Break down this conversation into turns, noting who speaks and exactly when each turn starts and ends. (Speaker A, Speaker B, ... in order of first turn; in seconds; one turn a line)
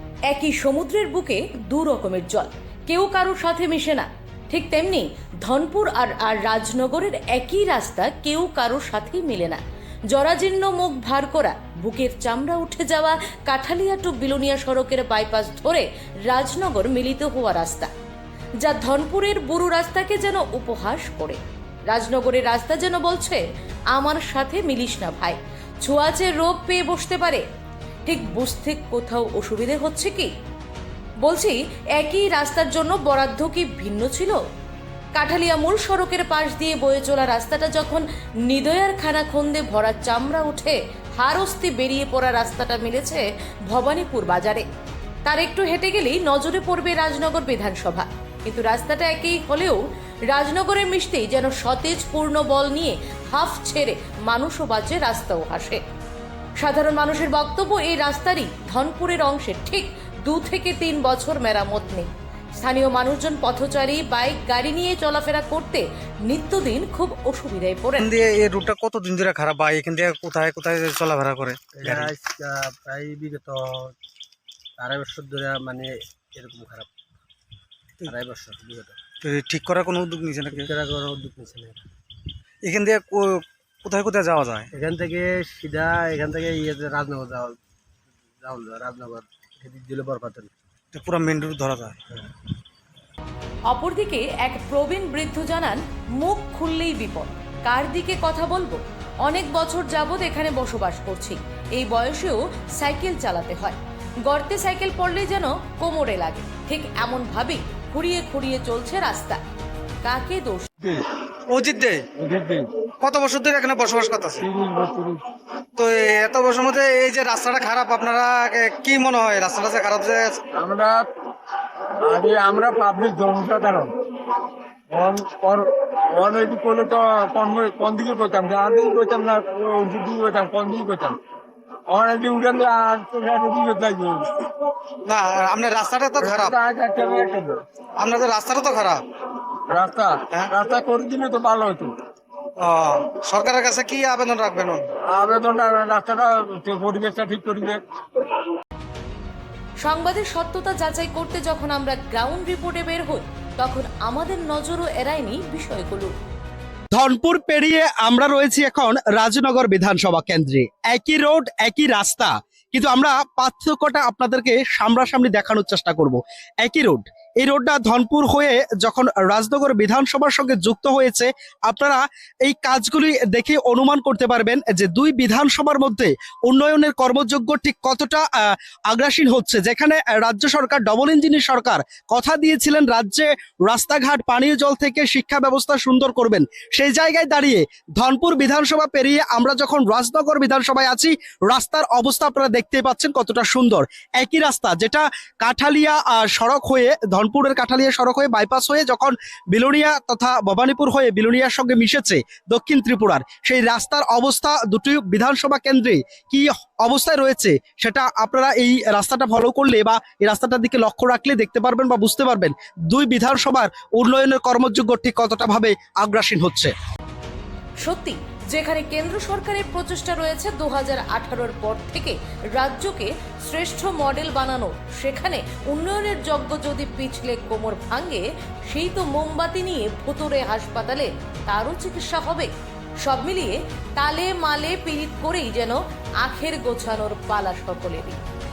Speaker A: 0.3-17.9
Speaker A: 18.6-27.4
Speaker A: 28.1-30.3
Speaker A: 31.2-34.4
Speaker A: 35.1-44.6
Speaker A: 45.2-55.8
Speaker A: 56.6-62.1
Speaker A: 62.6-68.1
Speaker B: 68.0-72.1
Speaker C: 71.8-73.9
Speaker C: 74.8-76.9
Speaker C: 78.0-79.0
Speaker B: 79.2-80.7
Speaker C: 80.5-81.8
Speaker B: 82.6-84.7
Speaker C: 84.7-87.6
Speaker C: 88.4-90.5
Speaker B: 90.9-92.0
Speaker A: 93.7-109.4
Speaker A: 110.0-110.7
Speaker B: 111.5-112.1
Speaker D: 112.1-112.7
Speaker B: 113.0-114.4
Speaker D: 114.4-115.2
Speaker B: 115.8-120.4
Speaker D: 120.5-121.1
Speaker D: 122.0-123.9
Speaker D: 124.9-131.2
Speaker D: 131.9-134.5
Speaker B: 135.0-136.6
Speaker D: 136.2-137.6
Speaker B: 138.0-139.0
Speaker D: 139.7-141.9
Speaker B: 142.6-144.9
Speaker D: 145.0-147.8
Speaker A: 149.8-156.1
Speaker E: 156.9-216.7
Speaker A: 217.8-232.5
Speaker A: 233.0-238.2